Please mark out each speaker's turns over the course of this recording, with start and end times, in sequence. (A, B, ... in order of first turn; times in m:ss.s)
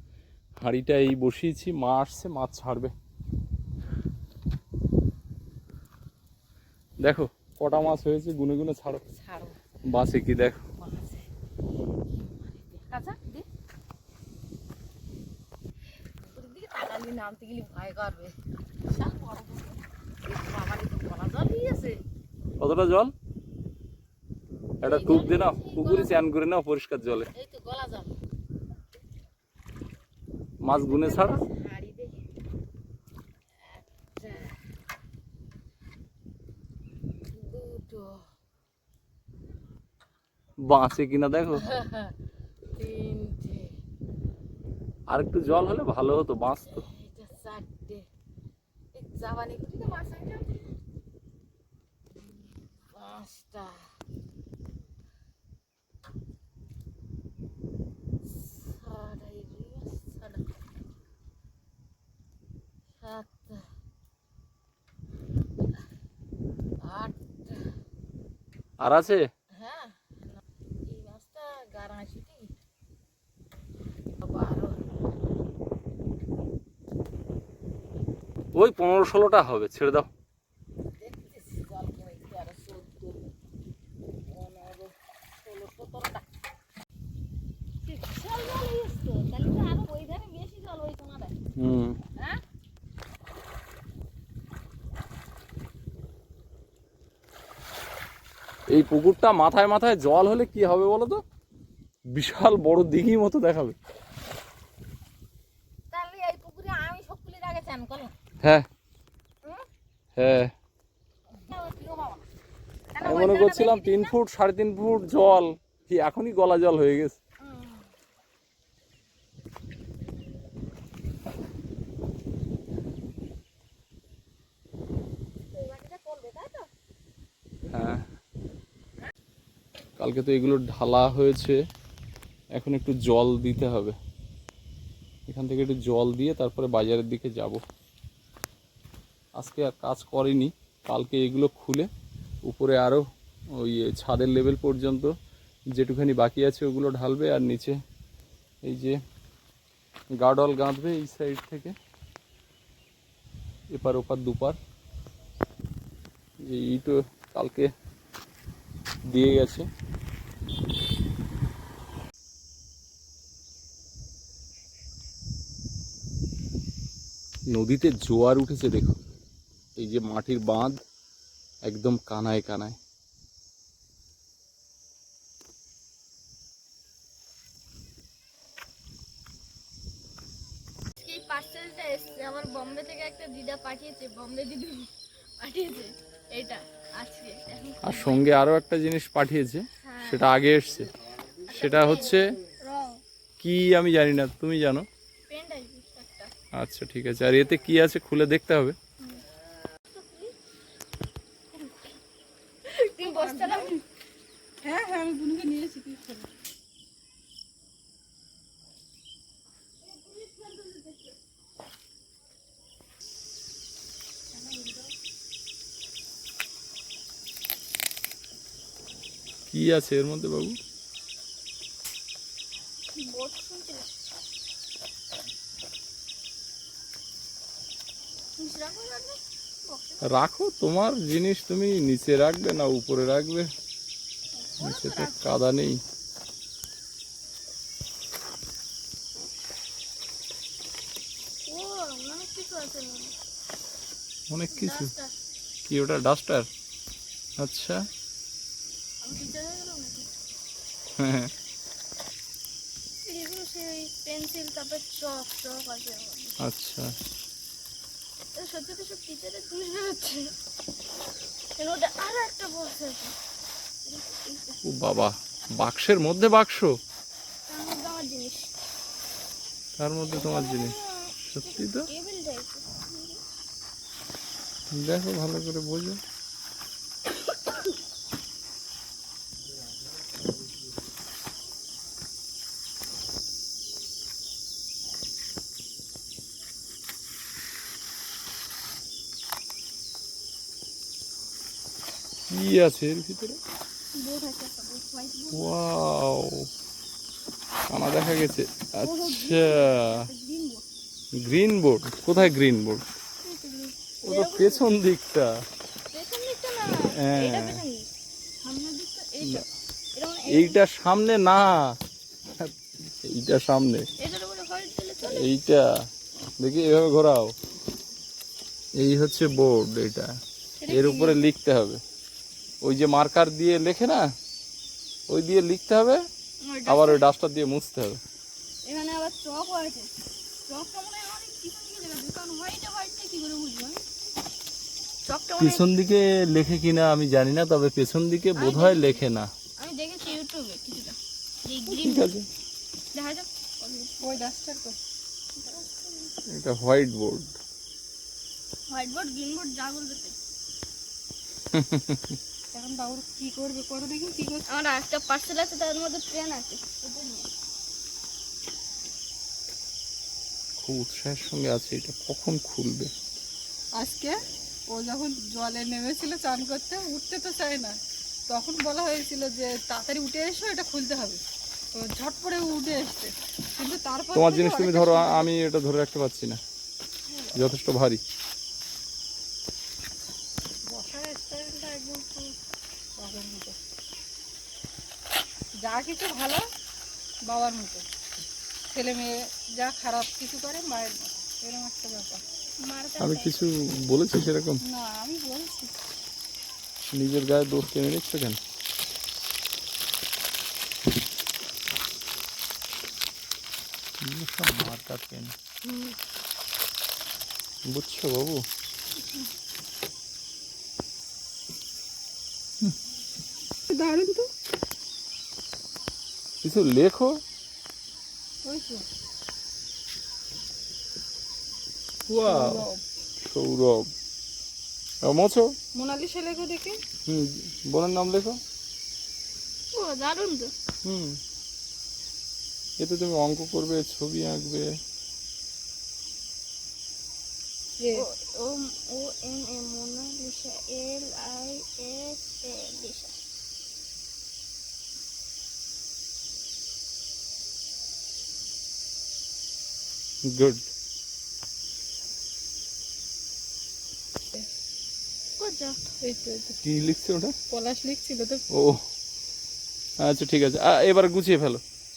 0:00.6-0:02.9 A
0:07.0-0:09.0 A
0:09.0-0:09.6 B
0:09.8-0:10.6 A
0:10.8-0:11.3 B
0:12.1-0:13.5 B
0:16.2-0:22.0 B
0:22.6-0:23.1 A
0:24.8-0:26.2 B
0:24.8-0:27.3 A
0:27.3-0:28.1 B
0:30.6-0:31.4 A
0:30.7-0:32.2 B
0:33.6-0:34.6 B
0:37.3-0:38.2 B
0:40.6-0:41.6 A
0:41.5-0:42.1 B
0:42.7-0:43.7 B
0:45.1-0:46.8 A
0:46.4-0:48.1 B
0:49.0-0:50.7 B
0:52.9-0:53.8 B
0:58.2-1:00.4 B
1:03.0-1:03.6 B
1:06.8-1:07.6 B
1:08.8-1:09.3 A
1:09.5-1:12.5 B
1:14.2-1:14.8 B
1:18.5-1:20.1 A
1:21.0-1:23.2 B
1:24.3-1:26.2 B
1:27.8-1:31.4 B
1:31.6-1:32.0 A
1:32.2-1:32.4 B
1:38.7-1:41.2 A
1:42.1-1:43.8 A
1:45.9-1:48.1 B
1:48.4-1:48.7 A
1:50.2-1:50.5 A
1:51.4-1:52.3 B
1:53.0-1:54.1 B
1:53.0-1:57.2 A
1:57.5-1:57.8 B
2:05.5-2:06.7 B
2:07.7-2:08.1 A
2:10.0-2:11.6 A
2:12.5-2:14.0 A
2:15.3-2:17.6 A
2:19.4-2:21.9 A
2:22.4-2:25.2 A
2:25.8-2:27.8 A
2:28.6-2:29.0 A
2:30.2-2:31.8 A
2:33.7-2:34.6 A
2:36.4-2:37.7 A
2:39.1-2:39.7 A
2:47.5-2:49.0 A
2:49.8-2:50.8 A
2:51.6-2:52.8 A
3:01.0-3:08.2 C
3:07.8-3:10.9 A
3:09.8-3:10.3 C
3:11.5-3:13.0 C
3:11.5-3:12.4 A
3:13.4-3:14.9 A
3:15.3-3:16.3 C
3:16.5-3:18.8 A
3:19.9-3:20.3 C
3:22.6-3:23.8 C
3:23.0-3:23.8 D
3:24.6-3:26.3 D
3:29.8-3:31.2 C
3:39.5-3:40.6 A
3:42.9-3:44.1 C
3:48.4-3:50.2 C
3:50.0-3:53.5 A
3:54.3-3:55.3 C
3:54.6-3:55.8 A
4:01.4-4:03.2 C
4:04.3-4:04.9 A
4:04.5-4:05.2 C
4:05.7-4:06.5 A
4:07.4-4:07.9 A
4:09.0-4:10.1 C
4:11.0-4:11.3 A
4:13.0-4:16.4 C
4:16.4-4:17.0 A
4:18.3-4:20.3 C
4:21.6-4:23.2 C
4:23.8-4:24.6 C
4:24.6-4:26.8 A
4:27.5-4:28.5 C
4:29.8-4:30.8 A
4:30.1-4:33.2 C
4:31.3-4:31.9 A
4:34.7-4:36.0 A
4:52.3-4:53.4 A
4:53.9-4:55.5 C
4:55.3-4:56.5 A
4:57.7-5:00.1 A
4:58.8-5:00.6 C
5:01.2-5:02.9 A
5:03.2-5:04.7 C
5:04.0-5:05.4 A
5:05.9-5:07.9 C
5:06.9-5:07.6 A
5:08.4-5:10.6 C
5:10.3-5:11.8 A
5:13.0-5:13.9 A
5:14.0-5:15.3 C
5:15.0-5:15.9 A
5:16.4-5:17.3 A
5:18.7-5:21.8 A
5:20.6-5:21.2 C
5:22.6-5:24.1 A
5:25.1-5:26.0 A
5:26.4-5:27.0 C
5:26.7-5:28.0 A
5:28.6-5:29.9 C
5:30.4-5:33.8 C
5:35.0-5:35.7 C
5:35.4-5:39.3 A
5:38.4-5:39.0 C
5:39.6-5:42.1 C
5:41.7-5:42.3 A
5:42.9-5:44.0 C
5:44.0-5:44.8 D
5:45.4-5:46.1 C
5:46.3-5:47.3 A
5:48.7-5:50.2 C
5:51.5-5:52.2 A
5:52.5-5:54.4 D
5:54.5-5:57.3 C
6:00.6-6:02.9 A
6:03.8-6:04.2 D
6:04.7-6:07.8 D
6:08.3-6:11.2 D
6:11.7-6:15.3 D
6:14.1-6:16.4 A
6:17.1-6:17.4 D
6:17.3-6:18.0 A
6:20.7-6:22.3 D
6:23.0-6:23.6 D
6:25.6-6:26.4 D
6:27.2-6:27.8 D
6:28.7-6:32.2 D
6:32.6-6:33.3 C
6:33.0-6:34.6 A
6:34.6-6:35.7 D
6:36.9-6:38.4 A
6:44.0-6:45.4 A
6:45.7-6:45.9 D
6:47.6-6:48.5 A
6:53.7-6:54.3 D
6:56.4-6:57.2 A
6:58.4-6:58.8 D
7:02.1-7:02.7 A
7:02.2-7:02.8 D
7:03.2-7:03.9 A
7:05.0-7:05.6 A
7:05.7-7:06.8 D
7:07.1-7:08.4 A
7:09.7-7:10.5 C
7:10.8-7:11.2 A
7:12.8-7:14.8 A
7:17.9-7:23.2 C
7:30.2-7:30.7 A
7:35.4-7:35.9 C
7:36.0-7:36.6 D
7:36.6-7:37.4 A
7:37.5-7:38.4 D
7:38.5-7:38.8 A
7:40.0-7:41.6 A